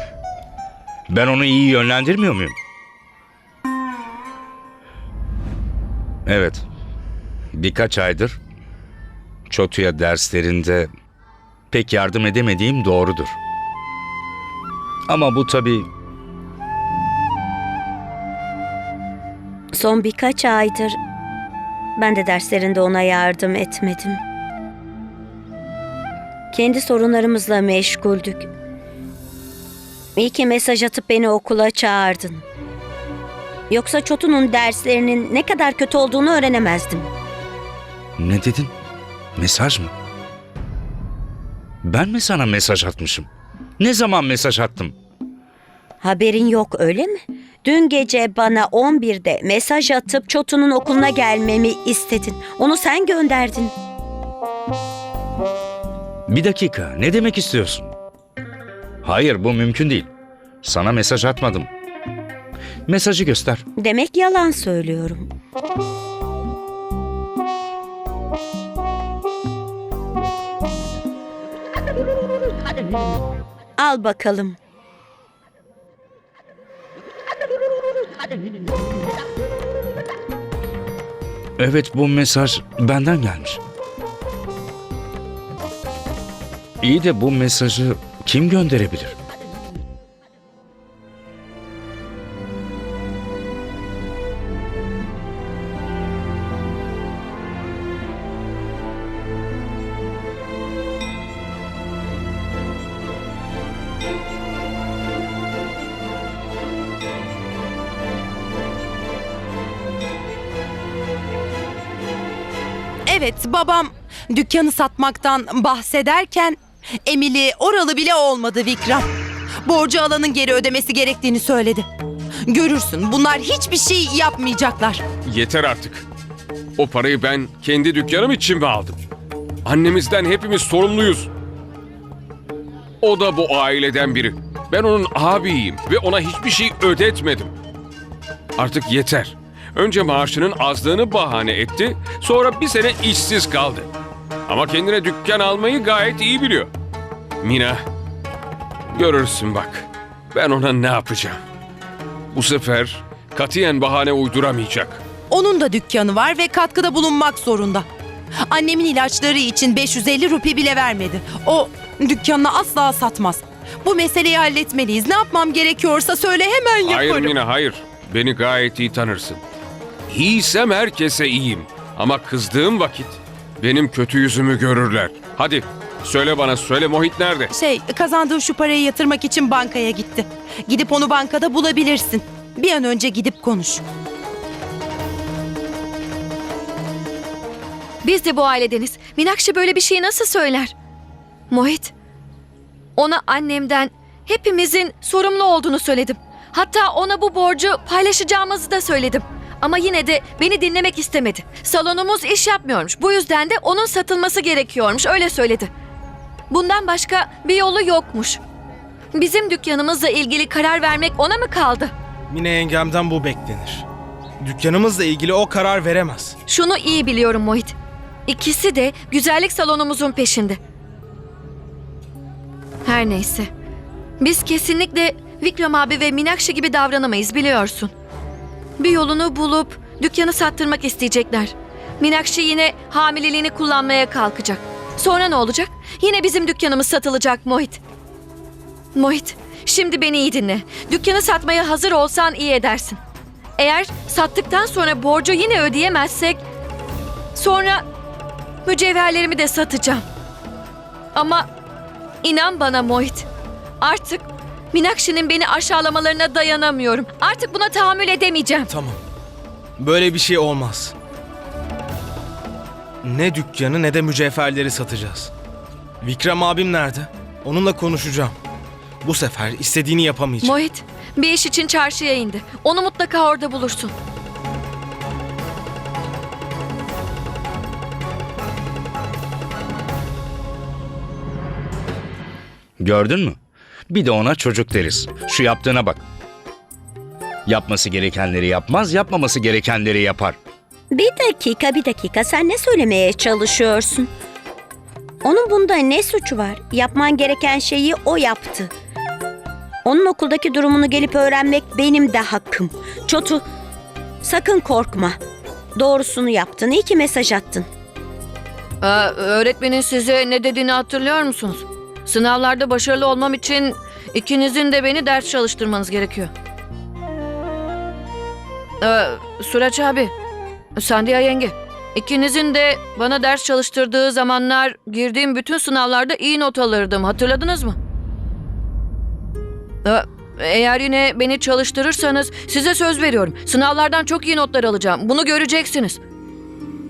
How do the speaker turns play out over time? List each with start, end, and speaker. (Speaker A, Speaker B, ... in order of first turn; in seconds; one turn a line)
Speaker A: 1.1-2.5
Speaker A: 6.2-6.6
Speaker A: 7.5-8.4
Speaker A: 9.5-10.9
Speaker A: 11.7-13.4
Speaker A: 15.1-15.9
Speaker B: 19.7-21.0
Speaker B: 22.0-24.2
Speaker B: 26.5-28.5
Speaker B: 30.1-32.4
Speaker B: 33.7-37.1
Speaker A: 38.2-38.7
Speaker A: 39.4-39.9
Speaker A: 41.8-43.3
Speaker A: 43.8-44.9
Speaker B: 46.0-53.7
Speaker A: 56.3-57.9
Speaker A: 59.0-60.1
Speaker A: 60.6-61.7
Speaker A: 62.9-63.6
Speaker B: 63.8-65.3
Speaker B: 73.8-74.6
Speaker A: 81.6-83.6
Speaker A: 86.8-89.1
Speaker C: 113.0-119.1
Speaker C: 119.6-121.9
Speaker C: 122.4-125.0
Speaker D: 125.2-126.0
Speaker D: 126.8-129.0
Speaker D: 129.6-131.3
Speaker D: 133.0-137.5
Speaker D: 138.6-143.9
Speaker D: 144.5-146.7
Speaker D: 147.4-147.8
Speaker D: 148.9-151.4
Speaker D: 152.3-155.0
Speaker C: 155.3-157.9
Speaker C: 158.4-167.3
Speaker D: 166.8-169.4
Speaker D: 170.1-177.5
Speaker C: 177.5-183.8
Speaker E: 188.0-190.7
Speaker E: 191.5-191.9
Speaker E: 192.9-205.7
Speaker E: 206.5-208.4
Speaker E: 209.1-211.9
Speaker F: 212.3-213.8
Speaker F: 214.4-216.3
Speaker E: 216.5-217.7
Speaker E: 218.3-220.6
Speaker E: 222.8-223.5
Speaker E: 224.2-227.9
Speaker E: 228.8-237.8
Speaker E: 238.9-243.0
Speaker E: 243.6-246.4
Speaker E: 247.3-247.8
Speaker E: 248.6-250.0
Speaker E: 251.1-251.5
Speaker E: 252.2-253.2
Speaker E: 253.8-258.7
Speaker F: 258.7-259.0
Speaker F: 259.8-260.9
Speaker F: 263.0-265.3
Speaker F: 266.0-268.4
Speaker F: 269.0-270.6
Speaker E: 270.4-273.9
Speaker A: 282.8-283.4
Speaker A: 283.9-286.0
Speaker A: 287.4-290.4
Speaker B: 290.9-294.1
Speaker B: 295.2-298.7
Speaker B: 299.8-303.4
Speaker B: 304.2-305.2
Speaker B: 305.8-307.7
Speaker E: 308.8-316.3
Speaker E: 318.8-320.1
Speaker E: 320.7-327.8
Speaker E: 329.8-336.0